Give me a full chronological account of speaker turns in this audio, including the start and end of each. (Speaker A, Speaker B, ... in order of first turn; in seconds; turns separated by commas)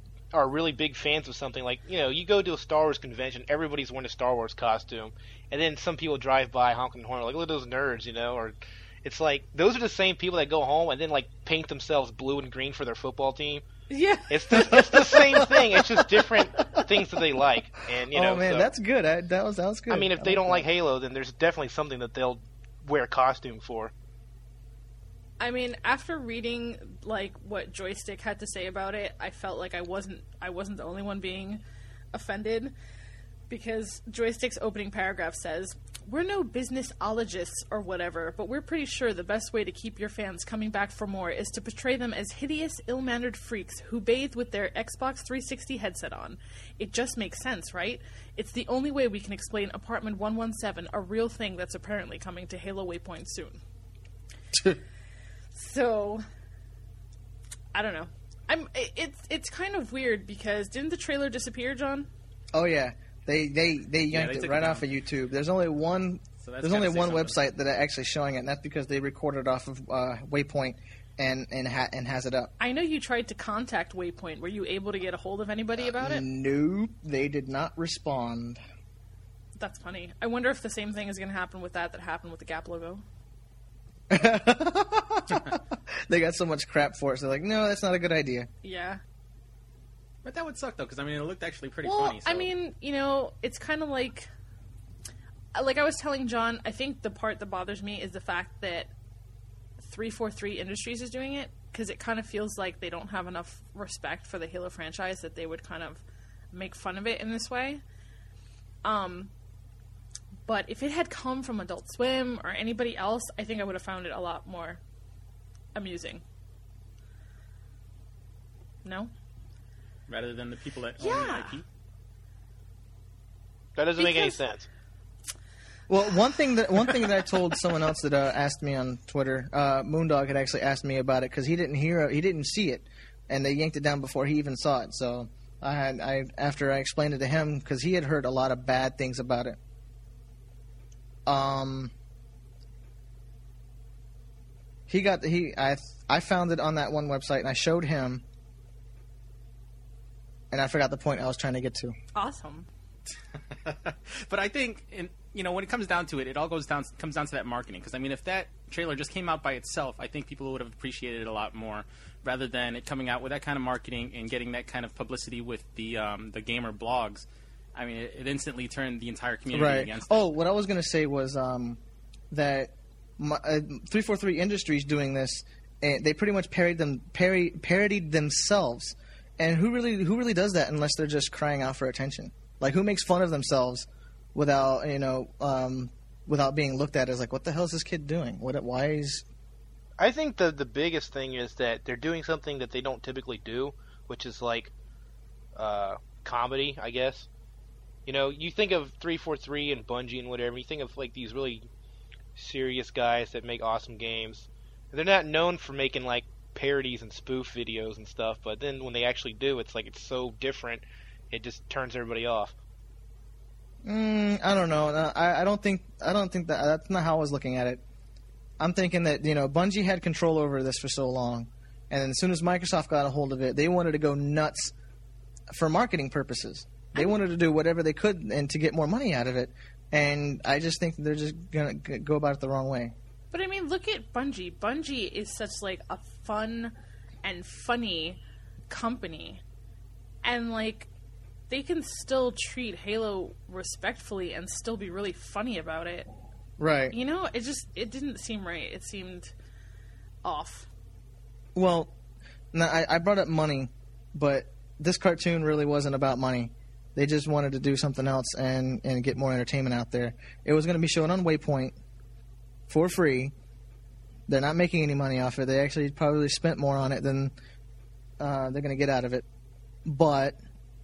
Speaker A: 0.3-13.6, Speaker B: 13.9-15.2, Speaker A: 14.3-18.7, Speaker C: 14.5-17.5, Speaker C: 18.1-20.7, Speaker A: 19.9-23.9, Speaker B: 25.4-32.8, Speaker B: 33.5-53.6, Speaker C: 54.5-54.8, Speaker B: 55.5-56.2, Speaker B: 57.7-62.1, Speaker C: 62.5-72.5, Speaker D: 64.1-64.8, Speaker D: 66.4-67.4, Speaker B: 72.6-76.2, Speaker C: 75.8-78.6, Speaker B: 79.6-83.0, Speaker C: 84.1-88.5, Speaker B: 88.6-89.0, Speaker D: 90.2-92.5, Speaker B: 91.8-94.3, Speaker B: 95.5-98.9, Speaker B: 99.8-107.8, Speaker B: 108.8-109.3, Speaker B: 110.5-114.8, Speaker B: 115.8-116.2, Speaker B: 118.8-119.1, Speaker D: 120.1-121.7, Speaker B: 121.0-121.6, Speaker A: 123.8-124.7, Speaker B: 124.0-124.4, Speaker C: 125.9-139.6, Speaker C: 141.3-141.9, Speaker C: 144.9-148.2, Speaker C: 150.5-151.9, Speaker B: 152.2-152.7, Speaker D: 153.6-170.3, Speaker C: 169.5-171.8, Speaker C: 172.3-189.2, Speaker A: 190.0-194.7, Speaker A: 195.6-197.3, Speaker A: 198.1-201.7, Speaker A: 202.4-212.6, Speaker C: 213.8-217.8, Speaker C: 218.6-224.7, Speaker C: 225.5-232.9, Speaker B: 233.3-239.4, Speaker B: 240.2-240.9, Speaker B: 241.5-246.1, Speaker C: 246.6-246.9, Speaker B: 246.9-249.3, Speaker B: 250.2-250.7, Speaker C: 251.6-251.9, Speaker C: 252.5-261.8, Speaker C: 262.7-263.3, Speaker C: 264.3-267.3, Speaker C: 268.2-269.2, Speaker C: 269.9-270.4